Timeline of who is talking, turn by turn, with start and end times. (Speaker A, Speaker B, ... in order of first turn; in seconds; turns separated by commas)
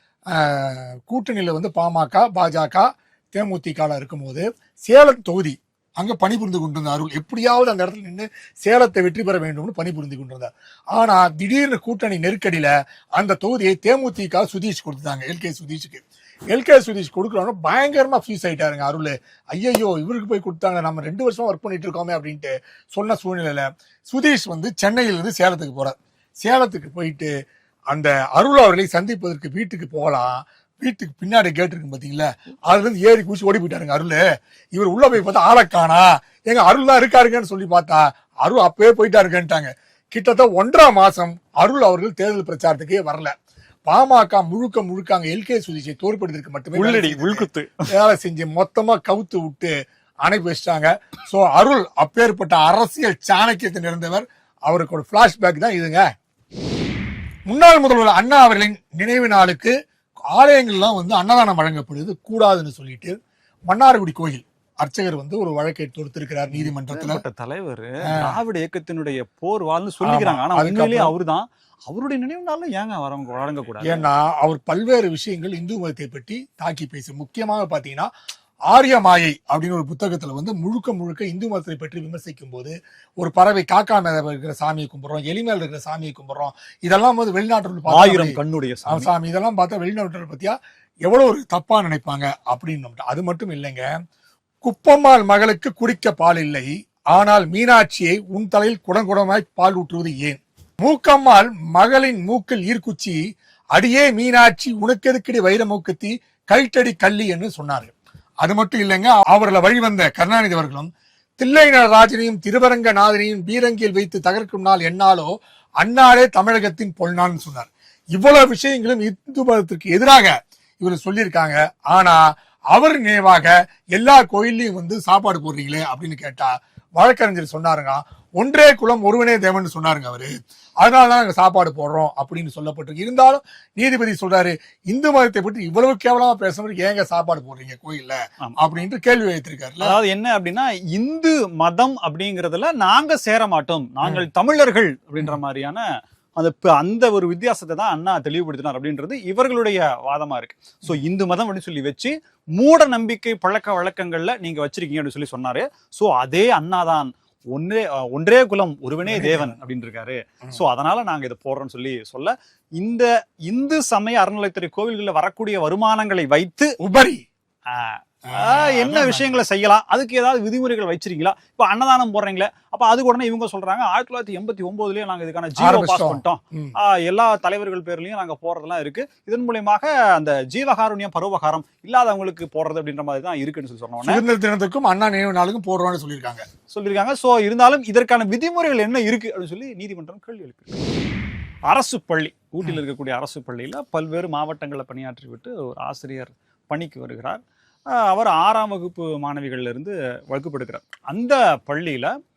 Speaker A: 0.3-27.3, Speaker A: 27.9-34.2, Speaker A: 34.7-43.3, Speaker A: 43.9-56.0, Speaker B: 46.8-47.9, Speaker A: 57.5-59.7, Speaker A: 60.3-63.2, Speaker A: 63.7-67.2, Speaker B: 66.5-74.1, Speaker A: 70.0-71.1, Speaker A: 73.8-78.1, Speaker A: 78.7-88.4, Speaker B: 87.9-89.1, Speaker A: 88.9-93.8, Speaker A: 94.6-103.2, Speaker A: 103.8-139.9, Speaker B: 139.8-145.8, Speaker B: 146.4-166.7, Speaker A: 159.1-159.6, Speaker A: 166.8-167.2, Speaker B: 167.7-184.2, Speaker A: 168.3-169.4, Speaker A: 175.6-176.7, Speaker A: 184.0-186.4, Speaker B: 186.7-190.8, Speaker B: 191.7-197.4, Speaker B: 197.9-202.1